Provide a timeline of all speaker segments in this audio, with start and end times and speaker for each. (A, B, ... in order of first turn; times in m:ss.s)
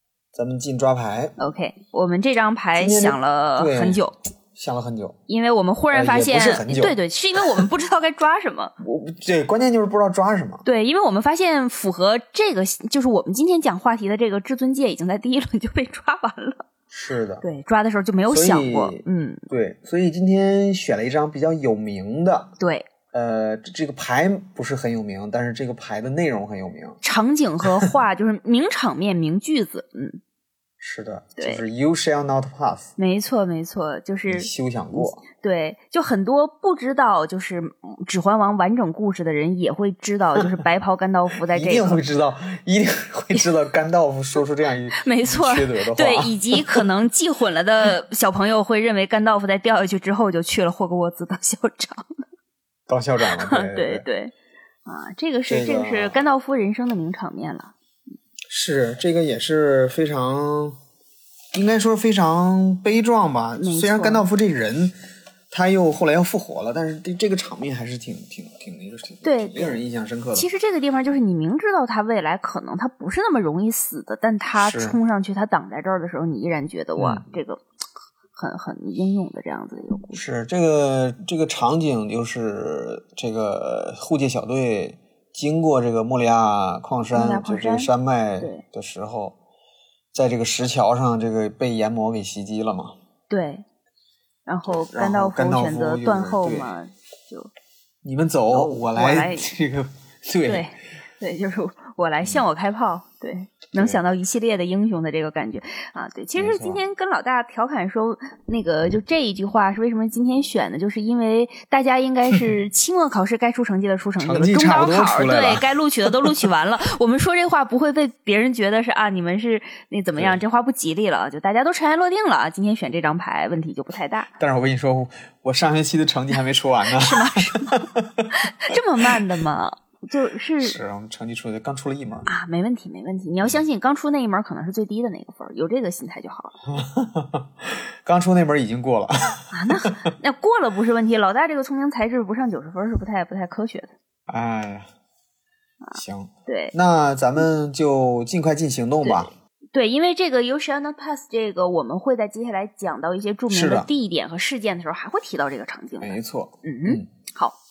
0:00.3-0:01.3 A
0:01.4-0:04.2 B
0:02.8-0:04.0 A
0:04.5-0:05.2 A
0:05.3-0:08.7 B
0:05.9-0:07.0 A
0:08.8-0:10.6 A
0:10.6-0:16.6 B
0:16.9-0:17.4 A
0:17.4-0:19.4 B
0:18.2-0:22.5 A
0:22.6-0:22.9 B
0:23.1-0:27.0 A
0:27.0-0:30.2 B
0:30.8-0:32.9 A
0:31.4-0:31.6 B
0:33.0-0:42.0 B
0:34.3-0:35.2 A
0:41.5-0:46.8 A
0:44.9-0:52.0 B
0:52.9-0:54.0 A
0:53.3-0:54.3 B
0:54.8-0:57.7 B
0:55.4-0:56.2 A
0:58.5-1:00.8 A
1:01.5-1:04.9 A
1:03.6-1:04.3 B
1:05.5-1:10.5 A
1:09.2-1:09.8 B
1:10.3-1:17.6 B
1:14.5-1:15.0 A
1:17.0-1:17.3 A
1:18.3-1:20.2 B
1:20.1-1:29.4 A
1:27.0-1:28.6 B
1:30.1-1:32.9 A
1:33.3-1:33.6 B
1:34.4-1:37.5 B
1:34.7-1:36.7 A
1:38.0-1:40.7 A
1:38.5-1:39.5 B
1:40.4-2:04.3 B
1:43.7-1:44.0 A
1:46.3-1:46.8 A
1:54.2-1:56.1 A
2:04.4-2:08.3 A
2:06.9-2:07.8 B
2:08.6-2:10.8 B
2:10.6-2:12.3 A
2:12.3-2:16.5 B
2:16.7-2:20.0 A
2:19.5-2:23.9 B
2:24.3-2:24.9 A
2:25.8-2:26.7 B
2:25.9-2:29.3 A
2:29.0-2:37.6 B
2:33.5-2:33.9 A
2:36.0-2:37.1 A